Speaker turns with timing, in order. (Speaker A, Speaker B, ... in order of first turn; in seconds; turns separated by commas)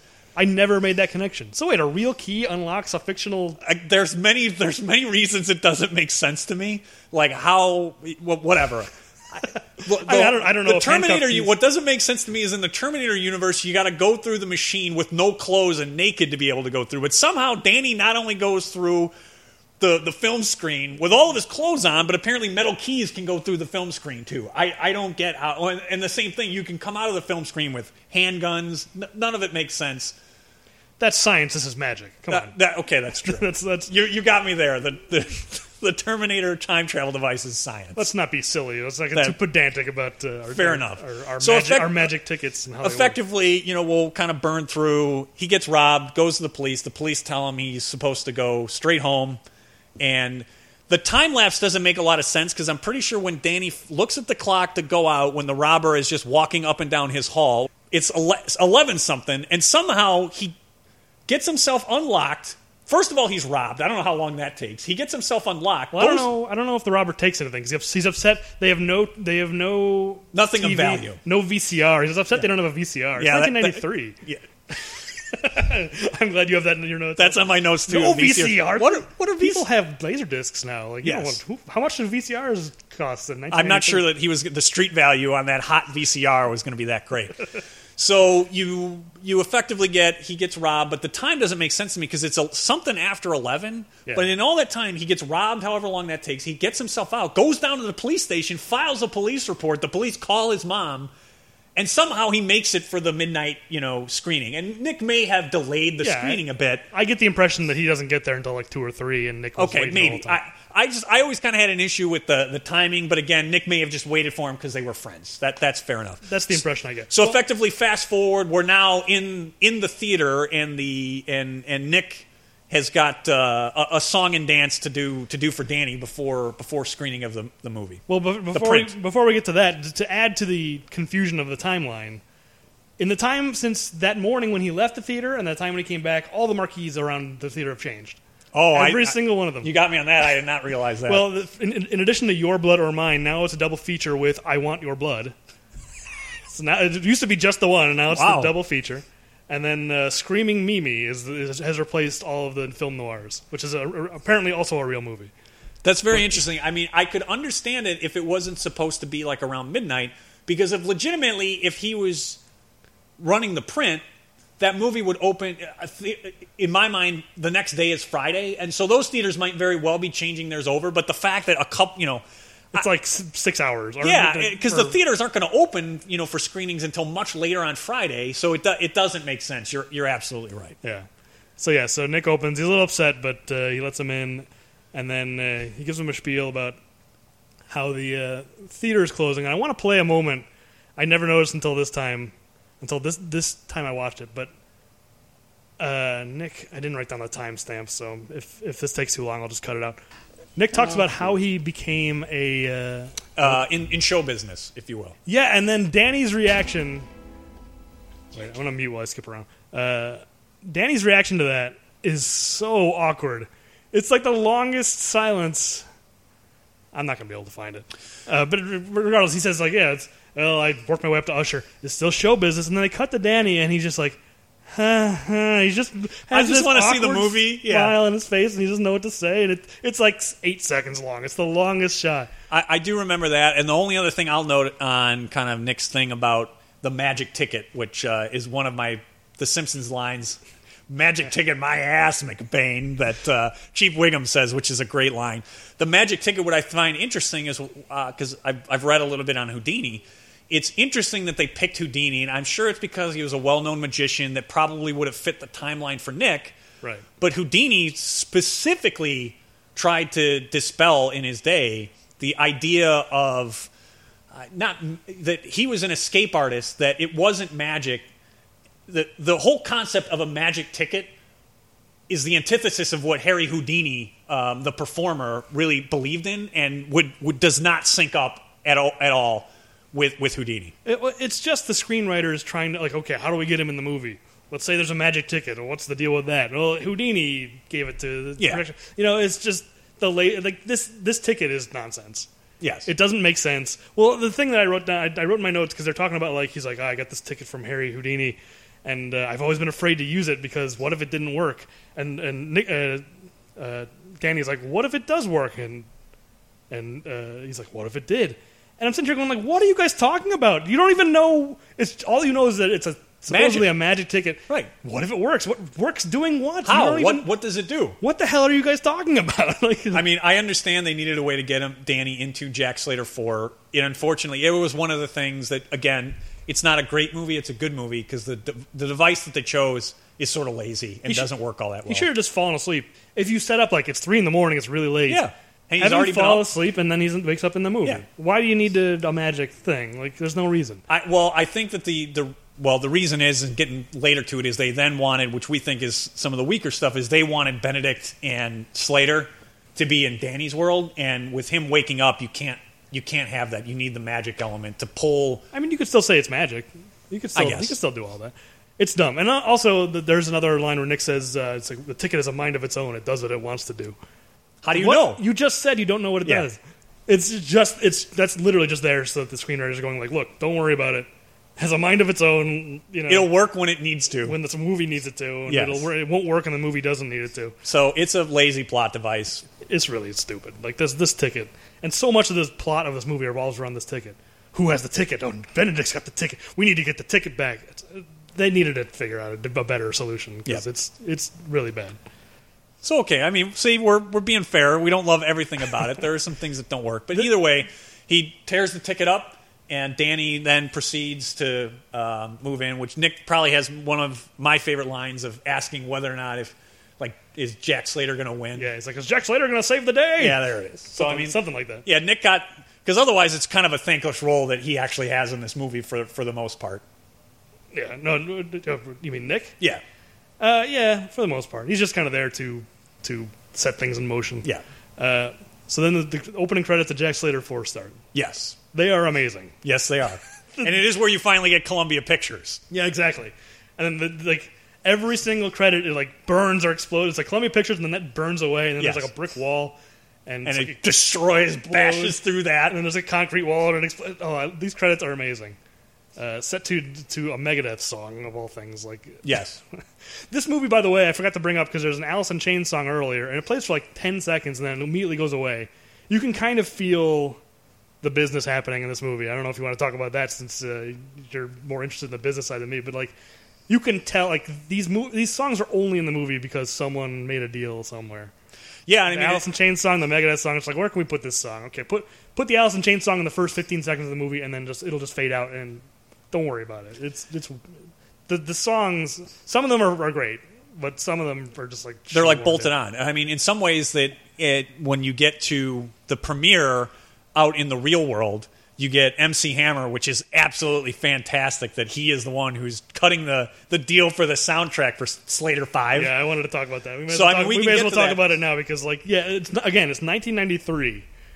Speaker A: 0.4-3.6, Speaker B: 3.6-19.1, Speaker A: 9.8-11.5, Speaker B: 19.8-30.1, Speaker A: 31.0-32.5, Speaker B: 32.3-38.1, Speaker A: 33.2-33.9, Speaker A: 38.0-43.2, Speaker B: 39.1-39.4, Speaker B: 40.5-42.2, Speaker B: 42.8-49.4, Speaker B: 50.0-60.6, Speaker B: 61.3-66.3, Speaker A: 65.9-74.2, Speaker B: 70.3-71.2, Speaker B: 73.2-74.5, Speaker A: 74.8-84.1, Speaker B: 77.2-79.7, Speaker B: 81.0-81.4, Speaker B: 83.5-101.1, Speaker B: 101.8-106.8, Speaker A: 106.0-110.4, Speaker B: 109.6-128.9, Speaker A: 116.3-117.4, Speaker A: 128.1-132.2, Speaker A: 133.0-138.2, Speaker B: 138.5-141.3, Speaker A: 138.7-139.7, Speaker A: 141.1-145.3, Speaker A: 146.5-155.3, Speaker B: 148.1-148.5, Speaker B: 155.8-162.4, Speaker B: 163.2-164.0, Speaker B: 164.6-172.8, Speaker A: 172.7-175.0, Speaker B: 174.0-180.8, Speaker A: 181.6-186.8, Speaker A: 187.7-190.5, Speaker A: 191.0-194.5, Speaker A: 195.8-200.0, Speaker A: 200.6-203.6, Speaker B: 200.7-201.3, Speaker B: 203.4-205.2, Speaker A: 205.3-207.1, Speaker A: 208.3-215.8, Speaker A: 216.9-232.3, Speaker B: 226.3-228.0, Speaker B: 232.5-256.6, Speaker B: 257.2-263.7, Speaker B: 264.3-268.1, Speaker B: 268.9-271.1, Speaker B: 272.1-280.8, Speaker A: 280.9-292.3, Speaker B: 288.4-288.6, Speaker B: 292.6-292.9, Speaker A: 292.9-305.9, Speaker A: 306.7-317.3, Speaker B: 313.3-313.8, Speaker B: 316.6-318.0, Speaker A: 318.0-320.1, Speaker B: 319.9-332.1, Speaker A: 331.9-335.2, Speaker B: 335.1-336.5, Speaker A: 335.8-340.8, Speaker B: 340.9-355.4, Speaker A: 355.5-364.0, Speaker B: 357.4-357.8, Speaker B: 364.6-365.2, Speaker A: 364.7-373.3, Speaker B: 373.1-374.4, Speaker A: 374.2-377.6, Speaker B: 375.5-375.9, Speaker B: 377.6-379.4, Speaker A: 379.6-392.0, Speaker B: 392.8-408.7, Speaker A: 408.6-411.9, Speaker B: 410.2-416.8, Speaker A: 417.7-419.6, Speaker A: 420.4-428.0, Speaker B: 428.1-428.6, Speaker A: 428.7-429.6, Speaker B: 429.6-432.6, Speaker A: 432.7-440.8, Speaker B: 438.8-439.1, Speaker B: 440.4-442.8, Speaker A: 441.7-445.6, Speaker A: 446.2-449.4, Speaker B: 449.2-449.6, Speaker A: 450.3-457.4, Speaker A: 458.0-463.1, Speaker A: 463.7-468.3, Speaker B: 468.9-469.4, Speaker A: 469.1-477.7, Speaker A: 478.3-482.7, Speaker B: 482.1-496.2, Speaker A: 495.9-501.1, Speaker B: 497.1-498.2